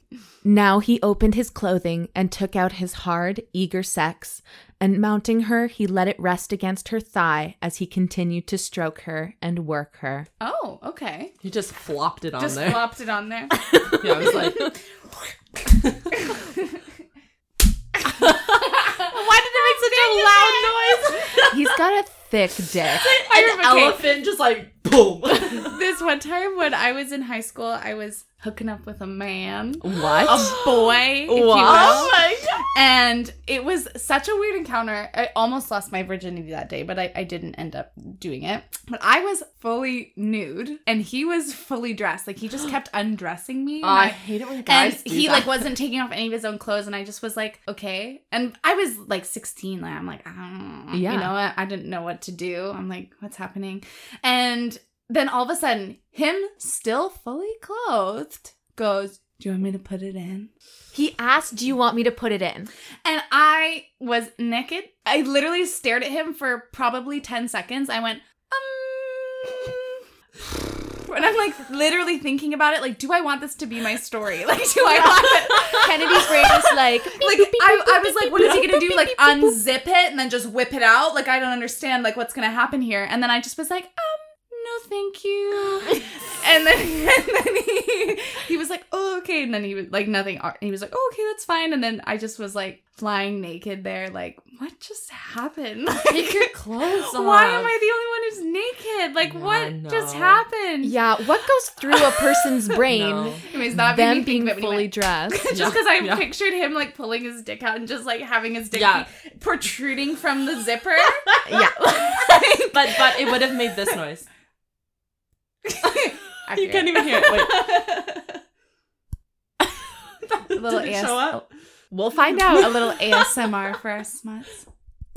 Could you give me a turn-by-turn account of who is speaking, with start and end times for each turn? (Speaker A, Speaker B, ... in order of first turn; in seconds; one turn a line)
Speaker A: 0.4-10.3
Speaker B: 10.4-11.3
Speaker C: 11.4-12.9
Speaker B: 12.4-14.7
Speaker C: 13.9-14.8
Speaker C: 15.7-16.3
Speaker B: 16.1-16.7
Speaker C: 18.1-21.6
Speaker B: 18.3-21.4
Speaker A: 21.5-23.1
Speaker C: 22.8-25.8
Speaker B: 23.2-24.1
Speaker B: 25.4-32.2
Speaker C: 29.8-32.8
Speaker A: 31.6-32.1
Speaker B: 32.7-60.5
Speaker C: 43.8-45.7
Speaker A: 50.9-51.3
Speaker A: 60.9-62.7
Speaker B: 63.0-70.0
Speaker B: 71.0-96.5
Speaker A: 75.7-79.5
Speaker C: 96.1-97.7
Speaker B: 97.0-101.0
Speaker C: 99.2-100.5
Speaker A: 100.8-105.4
Speaker C: 102.9-103.5
Speaker B: 103.5-113.6
Speaker C: 105.5-106.3
Speaker C: 108.7-109.1
Speaker A: 111.5-111.8
Speaker C: 112.6-114.3
Speaker B: 115.7-118.4
Speaker C: 115.9-117.9
Speaker B: 120.3-121.5
Speaker C: 120.5-121.4
Speaker A: 121.9-122.8
Speaker B: 122.2-124.7
Speaker C: 122.7-123.3